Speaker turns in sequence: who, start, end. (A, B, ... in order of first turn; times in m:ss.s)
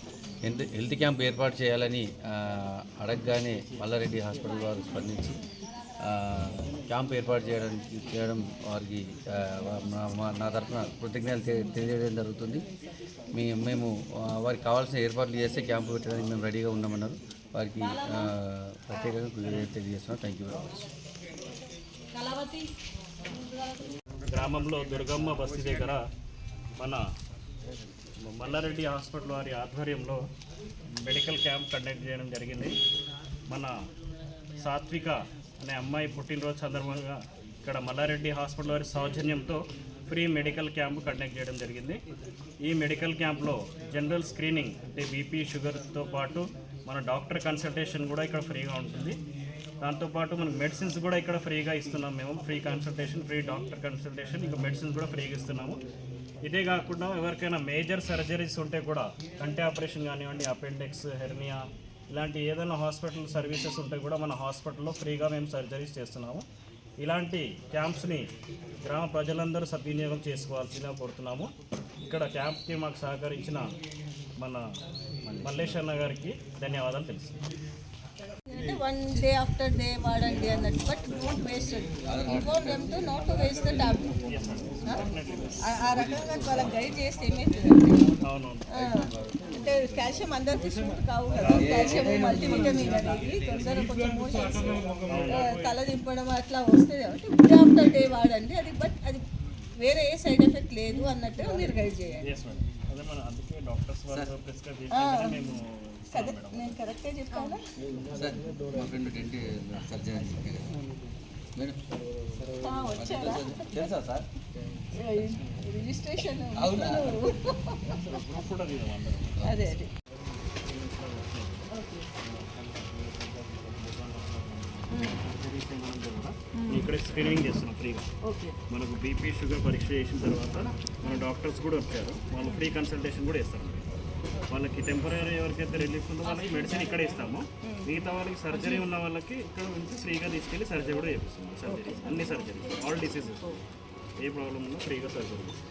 0:00.4-0:05.4 A
0:06.0-0:12.6 A
0:13.3-0:20.8 A
0:24.3-0:26.0 B
0:26.8-0:27.0 B
0:28.2-0:30.2 B
0:31.0-0:32.8 B
0:33.5-0:33.7 B
0:34.6-0:42.0 B
0:42.7-0:49.2 B
0:49.8-0:55.8 B
0:56.4-1:06.4 B
1:07.0-1:08.3 B
1:08.8-1:11.5 B
1:12.0-1:13.7 B
1:15.2-1:15.8 A
1:15.4-1:17.4 B
1:18.5-1:24.2 C
1:22.1-1:22.7 A
1:24.2-1:25.7 B
1:25.6-1:28.1 C
1:25.9-1:26.8 A
1:28.2-1:28.7 B
1:28.7-1:39.2 C
1:28.8-1:29.4 A
1:31.4-1:33.1 A
1:35.0-1:35.6 B
1:39.8-1:42.2 C
1:42.2-1:46.8 B
1:44.9-1:45.5 C
1:46.1-1:47.6 C
1:48.1-1:50.8 A
1:52.6-1:53.9 C
1:52.9-1:54.2 A
1:54.9-1:58.0 C
1:56.5-1:57.2 A
1:58.0-1:59.4 B
1:59.4-1:59.9 C
2:00.6-2:01.7 B
2:01.7-2:02.1 C
2:02.3-2:08.1 B
2:04.9-2:05.2 C
2:06.6-2:06.9 C
2:08.2-2:08.6 C
2:08.7-2:13.9 B
2:12.4-2:12.7 C
2:14.5-2:23.6 B
2:16.5-2:17.0 C
2:17.6-2:17.9 C
2:18.5-2:18.9 C
2:21.7-2:22.6 C
2:24.2-2:25.6 B